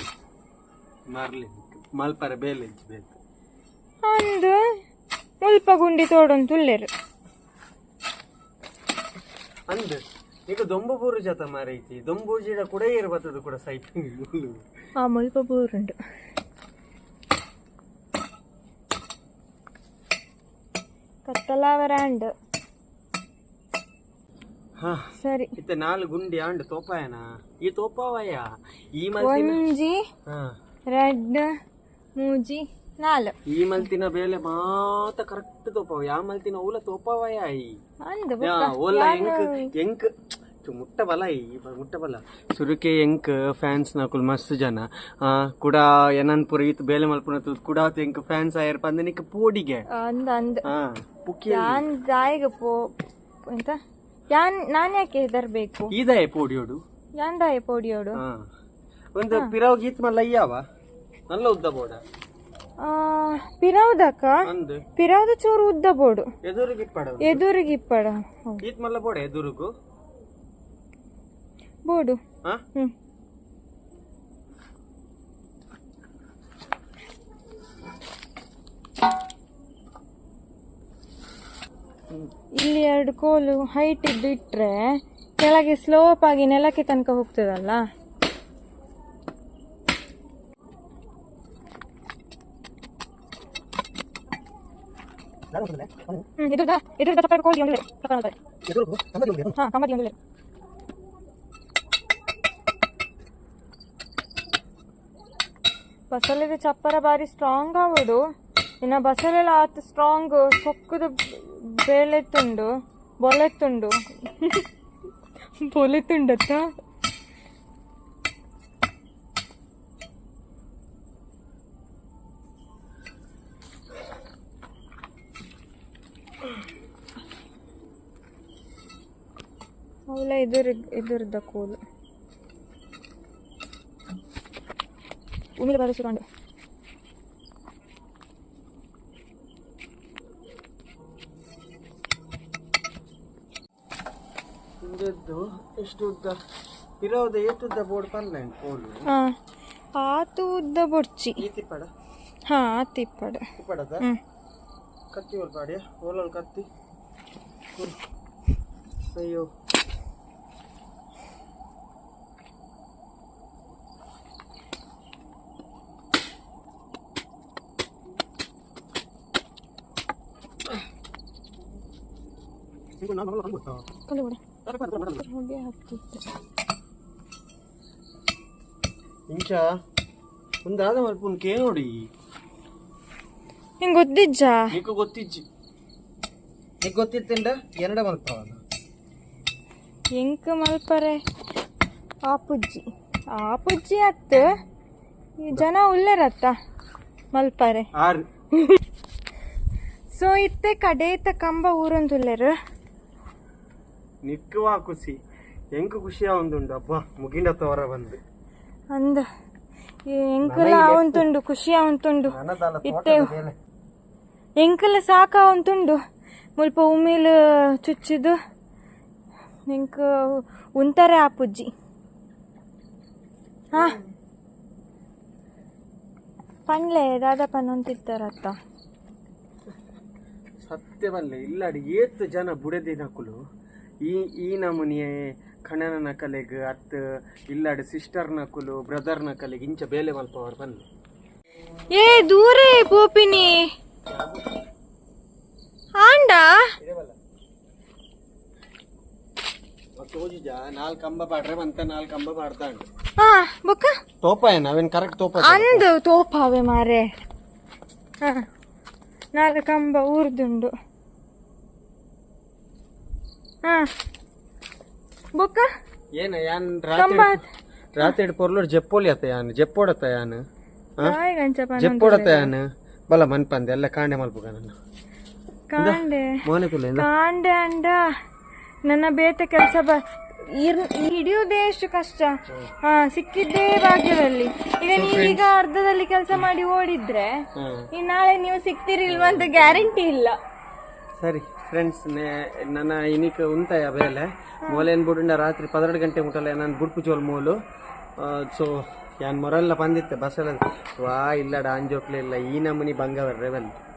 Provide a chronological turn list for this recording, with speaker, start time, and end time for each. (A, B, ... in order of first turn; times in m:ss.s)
0:01.1-0:03.2 A
0:04.0-0:04.6 B
0:05.4-0:06.9 B
0:09.7-0:14.6 A
0:15.0-0:16.0 B
0:21.2-0:22.3 B
0:25.2-0:25.5 B
0:25.6-0:28.5 A
0:29.0-0:29.6 A
0:29.2-0:30.0 B
0:30.9-0:31.5 B
0:32.2-0:33.3 B
0:33.5-0:37.7 A
0:38.0-0:39.5 B
0:38.4-0:40.1 A
0:40.6-0:49.8 A
0:49.9-0:50.6 B
0:50.7-0:51.8 A
0:51.5-0:52.8 B
0:53.5-0:53.8 B
0:54.3-0:55.9 B
0:55.9-0:56.8 A
0:57.2-0:58.2 B
0:59.1-1:00.6 A
1:01.3-1:02.0 A
1:02.8-1:04.3 B
1:04.5-1:04.8 A
1:05.0-1:06.3 B
1:06.4-1:07.4 A
1:07.2-1:08.6 B
1:08.6-1:09.7 A
1:11.9-1:12.2 B
1:22.6-1:24.8 B
1:25.4-1:27.8 B
1:35.5-1:36.0 A
1:36.4-1:38.4 B
1:38.7-1:39.5 A
1:39.5-1:40.1 B
1:46.1-1:48.2 B
1:48.8-1:52.7 B
1:53.2-1:54.7 B
1:55.6-1:56.7 B
2:10.1-2:11.8 B
2:15.6-2:16.2 B
2:24.8-2:26.4 A
2:27.0-2:29.0 A
2:29.9-2:31.4 B
2:31.4-2:31.9 A
2:32.5-2:33.4 B
2:33.6-2:34.0 A
2:35.1-2:36.7 A
2:39.1-2:39.4 A
2:53.0-2:53.8 A
2:54.1-2:54.4 B
2:54.7-2:55.2 A
2:55.1-2:56.2 B
2:59.3-2:59.6 A
3:00.6-3:01.9 A
3:03.8-3:04.6 B
3:04.7-3:05.4 A
3:06.8-3:08.6 A
3:10.2-3:11.2 B
3:12.3-3:14.4 B
3:15.4-3:16.5 B
3:17.3-3:17.8 B
3:20.1-3:22.5 B
3:24.2-3:25.2 A
3:25.8-3:28.2 A
3:28.9-3:29.2 B
3:30.1-3:33.3 B
3:30.4-3:31.2 A
3:32.3-3:33.5 A
3:34.6-3:36.0 B
3:36.6-3:38.4 B
3:39.7-3:41.7 B
3:46.7-3:48.5 B
3:50.6-3:53.4 A
3:54.0-4:00.8 A
4:01.9-4:03.6 B
4:04.1-4:04.4 A
4:06.0-4:06.7 B
4:06.8-4:07.2 A
4:10.0-4:12.9 A
4:13.2-4:13.9 B
4:14.2-4:15.8 A
4:15.4-4:17.1 B
4:19.3-4:20.7 B
4:23.6-4:23.9 B
4:25.4-4:25.7 B
4:26.2-4:27.4 A
4:26.9-4:27.5 B
4:27.9-4:30.4 A
4:31.0-4:32.5 B
4:31.8-4:34.7 A
4:35.7-4:36.3 B
4:35.8-4:37.1 A
4:37.0-4:38.0 B
4:38.8-4:42.3 B
4:42.8-4:47.3 B
4:44.9-4:45.5 A
4:47.9-4:50.4 B
4:49.1-4:49.9 A
4:51.2-4:57.5 A
4:58.2-5:03.7 A